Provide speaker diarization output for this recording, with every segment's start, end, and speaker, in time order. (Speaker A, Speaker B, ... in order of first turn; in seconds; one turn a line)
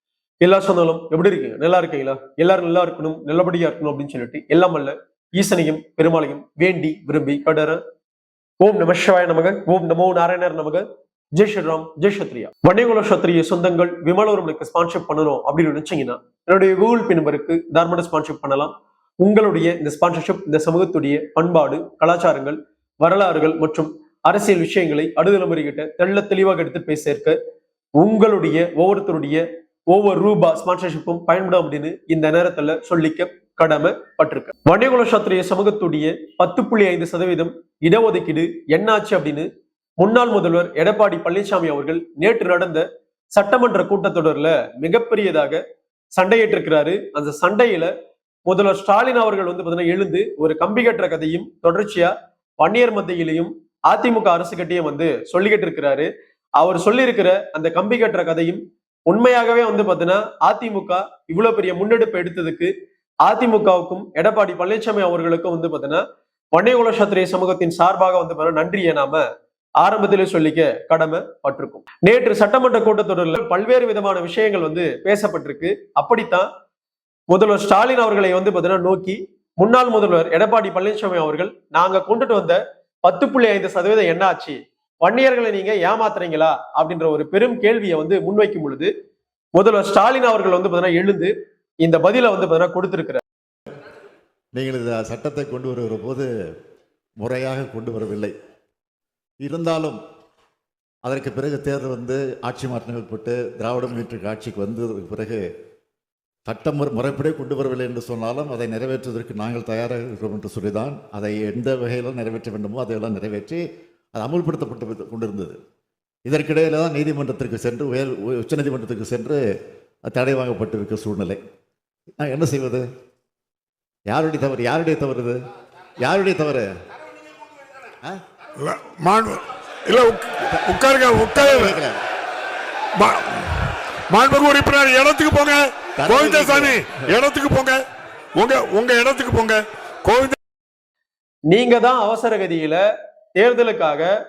Speaker A: 0.4-7.8
Speaker A: 8.6-27.4
Speaker A: 28.0-39.5
Speaker A: 40.0-45.6
Speaker A: 46.1-47.9
Speaker A: 48.5-62.7
Speaker A: 63.2-66.0
Speaker A: 66.5-69.2
Speaker A: 69.8-76.5
Speaker A: 77.3-88.9
Speaker A: 89.6-91.3
Speaker A: 91.8-93.2
Speaker B: 94.5-96.3
Speaker B: 97.2-98.3
Speaker B: 99.4-100.0
Speaker B: 101.0-105.4
Speaker B: 106.5-113.6
Speaker B: 114.2-115.6
Speaker B: 116.2-119.4
Speaker B: 120.0-121.4
Speaker B: 122.2-122.8
Speaker B: 124.1-125.4
Speaker B: 126.0-126.7
Speaker C: 128.6-131.8
Speaker B: 131.3-132.0
Speaker C: 133.0-137.8
Speaker B: 136.0-136.9
Speaker C: 138.4-140.3
Speaker A: 141.5-142.8
Speaker A: 143.4-144.1